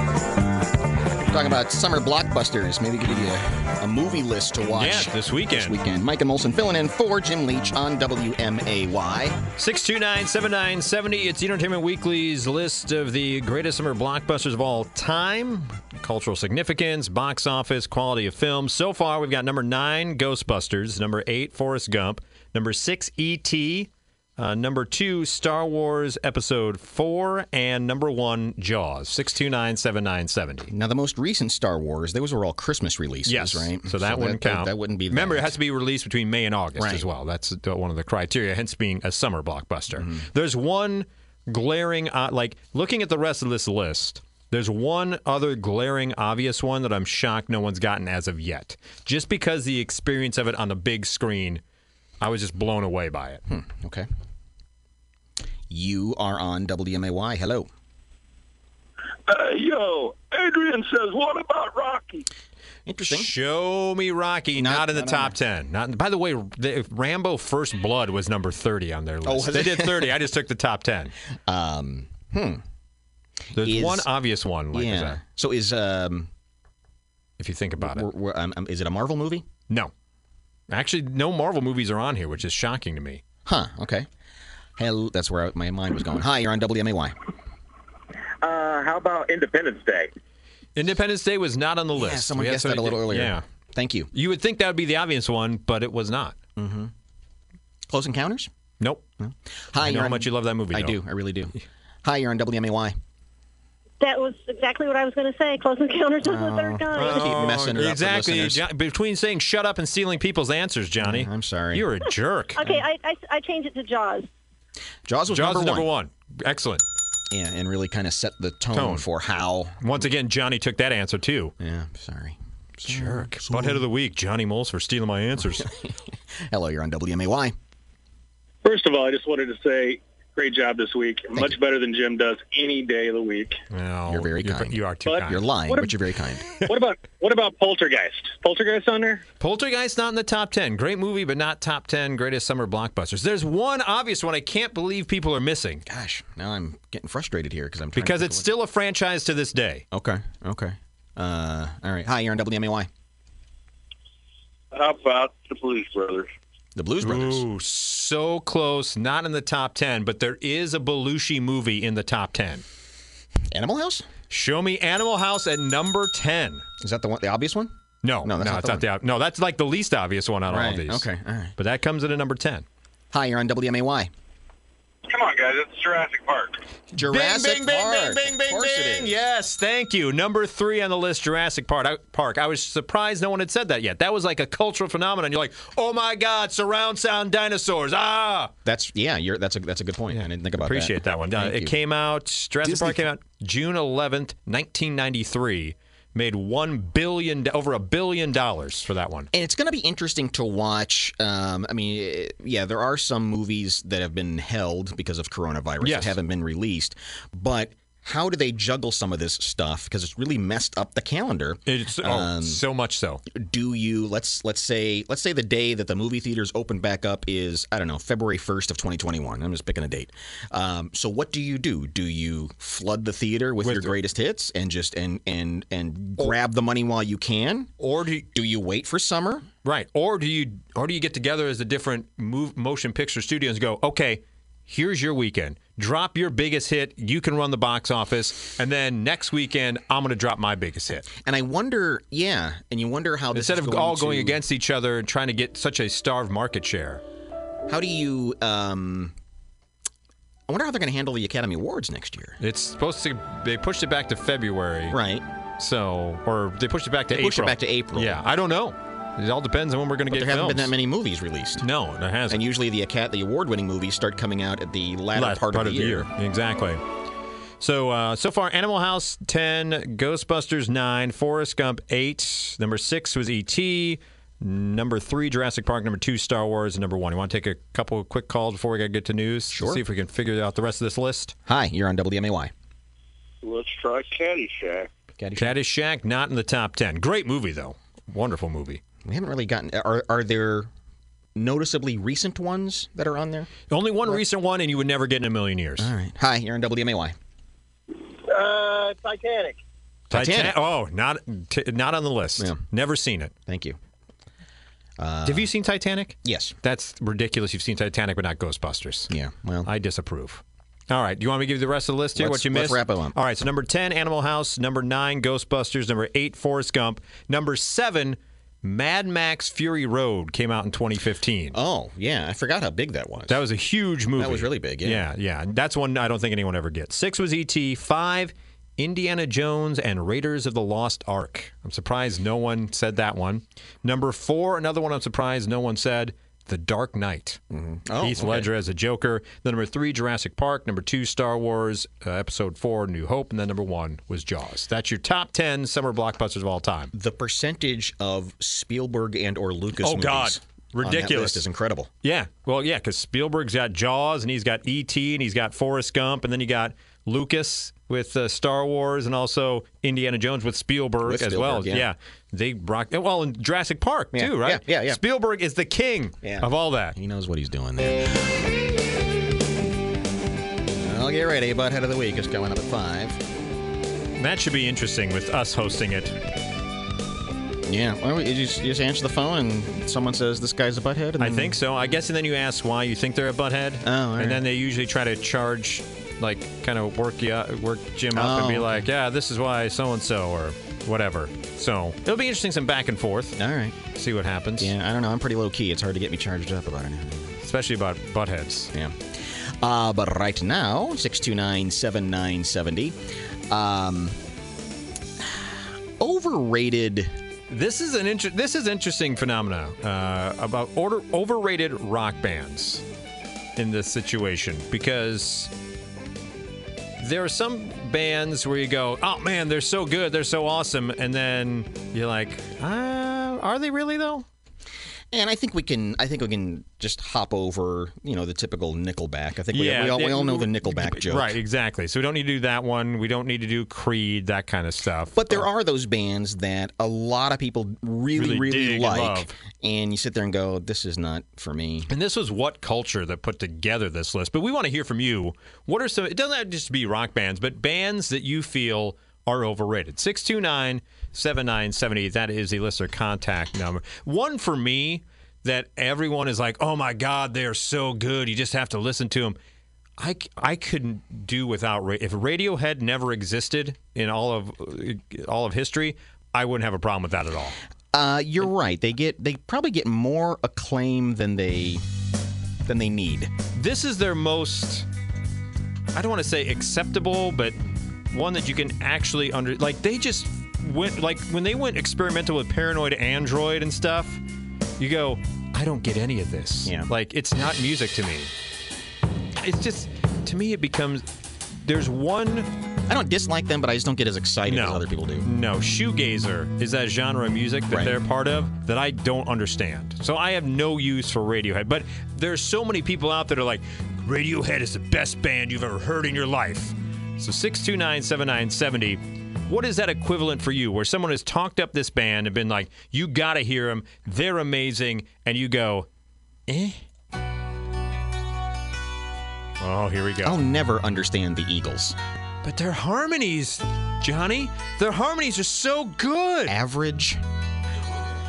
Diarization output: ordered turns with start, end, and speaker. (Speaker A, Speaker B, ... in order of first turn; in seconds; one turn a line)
Speaker A: 1.3-9.4
Speaker B: 4.8-5.8
Speaker B: 9.6-30.7
Speaker A: 30.7-35.5
Speaker B: 33.2-51.6
Speaker A: 36.8-37.0
Speaker A: 40.0-40.2
Speaker B: 52.2-53.4
Speaker A: 53.5-54.1
Speaker A: 55.7-57.7
Speaker C: 59.3-62.2
Speaker A: 62.9-63.3
Speaker B: 63.1-71.1
Speaker A: 64.5-65.3
Speaker A: 69.2-70.1
Speaker A: 71.5-72.6
Speaker A: 73.6-74.1
Speaker B: 73.6-75.2
Speaker A: 74.7-76.3
Speaker B: 77.4-78.1
Speaker A: 77.8-79.5
Speaker B: 80.7-83.2
Speaker A: 83.5-84.1
Speaker A: 84.8-87.2
Speaker D: 88.4-90.1
Speaker B: 90.8-93.4
Speaker A: 92.0-94.1
Speaker B: 94.1-96.4
Speaker A: 96.6-96.9
Speaker A: 97.9-98.5
Speaker A: 99.2-103.0
Speaker B: 99.8-101.0
Speaker E: 104.0-107.3
Speaker A: 106.2-108.6
Speaker B: 106.9-112.6
Speaker A: 111.0-111.8
Speaker E: 112.5-114.3
Speaker A: 115.0-115.9
Speaker B: 115.3-116.8
Speaker A: 117.3-119.8
Speaker B: 118.7-119.1
Speaker B: 119.8-121.5
Speaker A: 121.6-123.8
Speaker B: 122.8-125.7
Speaker A: 126.5-127.5
Speaker D: 128.6-133.6
Speaker B: 133.7-135.5
Speaker A: 134.1-136.5
Speaker D: 135.1-135.9
Speaker D: 136.7-139.2
Speaker B: 139.4-145.8
Speaker A: 145.9-148.5
Speaker B: 147.9-149.8
Speaker A: 149.9-152.9
Speaker C: 154.7-156.3
Speaker A: 156.8-157.4
Speaker B: 157.0-162.6
Speaker A: 163.5-164.1
Speaker B: 164.3-166.7
Speaker A: 166.8-167.7
Speaker B: 168.0-172.7
Speaker A: 168.2-168.8
Speaker A: 170.5-171.5
Speaker A: 173.1-174.1
Speaker C: 175.3-176.4
Speaker A: 176.9-179.2
Speaker B: 177.0-188.5
Speaker A: 188.6-191.8
Speaker B: 190.1-199.3
Speaker A: 192.6-193.0
Speaker A: 199.3-212.6
Speaker B: 205.8-206.1
Speaker B: 211.7-213.2
Speaker A: 213.3-227.7
Speaker B: 223.6-223.9
Speaker B: 227.8-228.2
Speaker A: 228.3-229.4
Speaker B: 229.6-241.1
Speaker A: 241.1-244.4
Speaker B: 243.3-247.0
Speaker A: 247.7-249.1
Speaker A: 250.5-252.4
Speaker B: 252.4-255.0
Speaker A: 254.9-255.2
Speaker B: 255.6-260.7
Speaker A: 257.1-258.2
Speaker A: 260.1-261.6
Speaker B: 261.6-262.4
Speaker A: 262.3-266.1
Speaker B: 265.1-266.8
Speaker B: 267.6-281.3
Speaker A: 279.5-279.8
Speaker A: 281.4-282.5
Speaker C: 283.4-284.9
Speaker A: 285.2-285.5
Speaker B: 285.4-288.8
Speaker A: 289.0-290.7
Speaker A: 291.3-293.5
Speaker B: 293.7-295.9
Speaker A: 295.8-297.1
Speaker D: 298.3-299.6
Speaker B: 300.1-303.3
Speaker A: 300.1-300.5
Speaker A: 303.4-303.8
Speaker A: 305.0-305.5
Speaker B: 305.2-309.1
Speaker A: 306.2-306.5
Speaker A: 309.1-309.7
Speaker B: 309.6-321.6
Speaker A: 312.1-313.1
Speaker A: 321.5-323.4
Speaker B: 323.3-337.4
Speaker A: 324.2-325.1
Speaker A: 337.5-338.5
Speaker B: 338.0-346.9
Speaker A: 346.9-351.9
Speaker B: 349.8-351.4
Speaker B: 352.0-366.9
Speaker A: 361.0-361.9
Speaker A: 364.1-365.0
Speaker A: 366.2-368.3
Speaker A: 370.8-373.2
Speaker B: 374.2-376.2
Speaker A: 377.7-381.5
Speaker B: 381.2-393.4
Speaker A: 383.8-384.4
Speaker A: 388.1-388.8
Speaker A: 393.4-393.8
Speaker B: 393.9-394.7
Speaker A: 394.6-397.4
Speaker B: 397.4-398.7
Speaker A: 398.7-403.0
Speaker A: 403.5-404.2
Speaker A: 406.0-407.1
Speaker B: 407.5-412.8
Speaker B: 413.6-415.5
Speaker B: 417.0-424.2
Speaker A: 425.1-431.3
Speaker B: 429.5-435.5
Speaker A: 435.1-441.9
Speaker B: 438.1-439.3
Speaker B: 441.9-459.4
Speaker B: 460.0-467.6
Speaker A: 467.9-471.8
Speaker A: 472.7-473.3
Speaker B: 473.5-474.9
Speaker B: 475.9-477.6
Speaker B: 478.1-484.2
Speaker B: 484.8-488.3
Speaker B: 489.4-491.1
Speaker B: 491.6-492.5
Speaker A: 492.9-495.3
Speaker B: 494.4-515.9
Speaker B: 516.5-516.8
Speaker B: 519.6-520.4
Speaker A: 520.2-522.0
Speaker B: 522.4-526.5
Speaker A: 526.5-527.2